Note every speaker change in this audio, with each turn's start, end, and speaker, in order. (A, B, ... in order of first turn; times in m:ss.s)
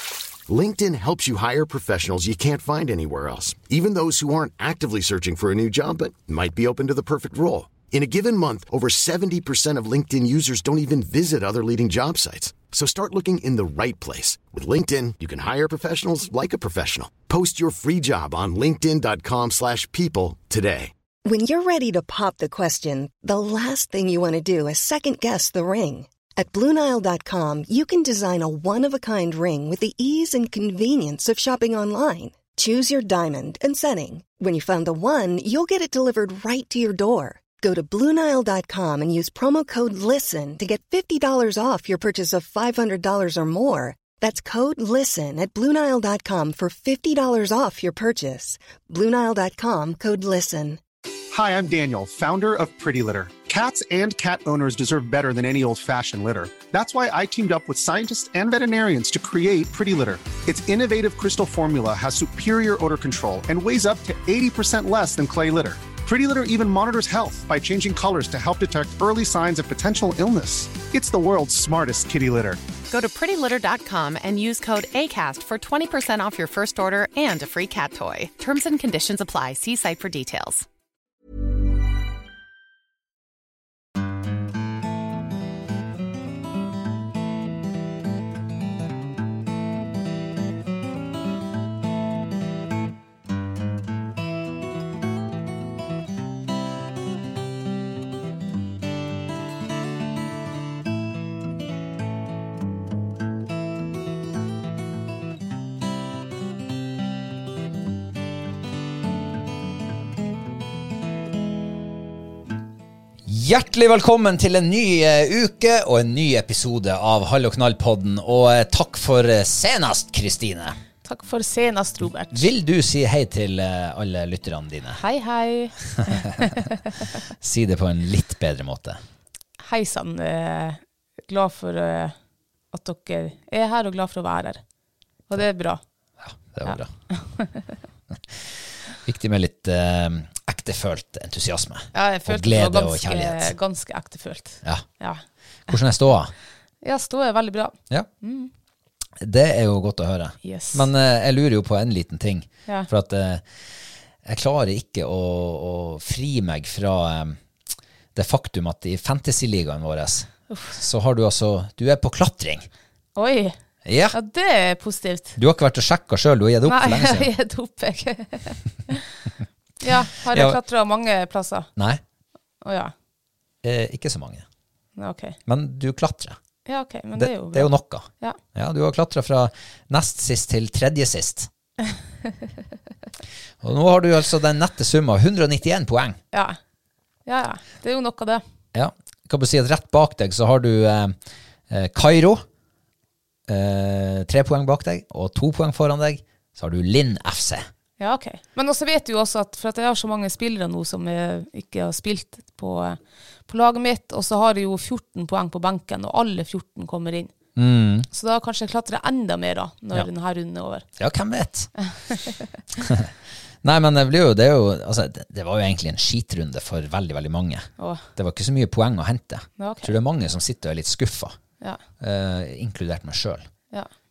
0:00.5-0:20.9 A
0:21.2-0:50.8 B
0:51.3-1:12.6 C
1:12.9-1:20.6 D
1:53.2-2:00.8 E
2:01.0-2:02.5 F
2:02.3-2:05.0 E
2:04.9-2:06.7 F
2:07.4-2:09.0 E
2:09.6-2:12.1 F
2:12.7-2:14.6 F
2:15.3-2:15.8 F
2:16.2-2:16.9 E
2:16.6-2:17.7 F
2:18.1-2:23.5 E
2:21.9-2:25.2 F
2:24.6-2:24.9 E
2:25.7-2:26.3 E
2:26.8-2:28.5 F
2:29.2-2:37.4 E
2:30.4-2:30.8 F
2:38.1-2:42.7 E
2:40.5-2:40.8 F
2:43.2-2:43.6 F
2:43.8-2:44.2 E
2:44.1-2:45.4 F
2:45.4-2:47.3 E
2:46.6-2:49.3 F
2:49.8-2:51.7 F
2:50.3-2:50.6 E
2:52.6-2:52.9 F
2:53.6-2:54.4 E
2:55.0-2:55.4 F
2:55.5-2:56.4 E
2:56.6-2:58.4 F
2:57.1-3:01.5 E
3:03.6-3:06.2 E
3:07.2-3:08.4 F
3:08.7-3:11.2 E
3:11.7-3:12.4 E
3:13.5-3:17.6 E
3:18.0-3:27.3 F
3:27.6-3:28.1 E
3:28.1-3:30.8 F
3:31.0-3:31.7 E
3:31.8-3:32.3 F
3:32.8-3:41.4 E
3:37.8-3:38.0 F
3:39.6-3:39.9 F
3:42.0-3:43.5 E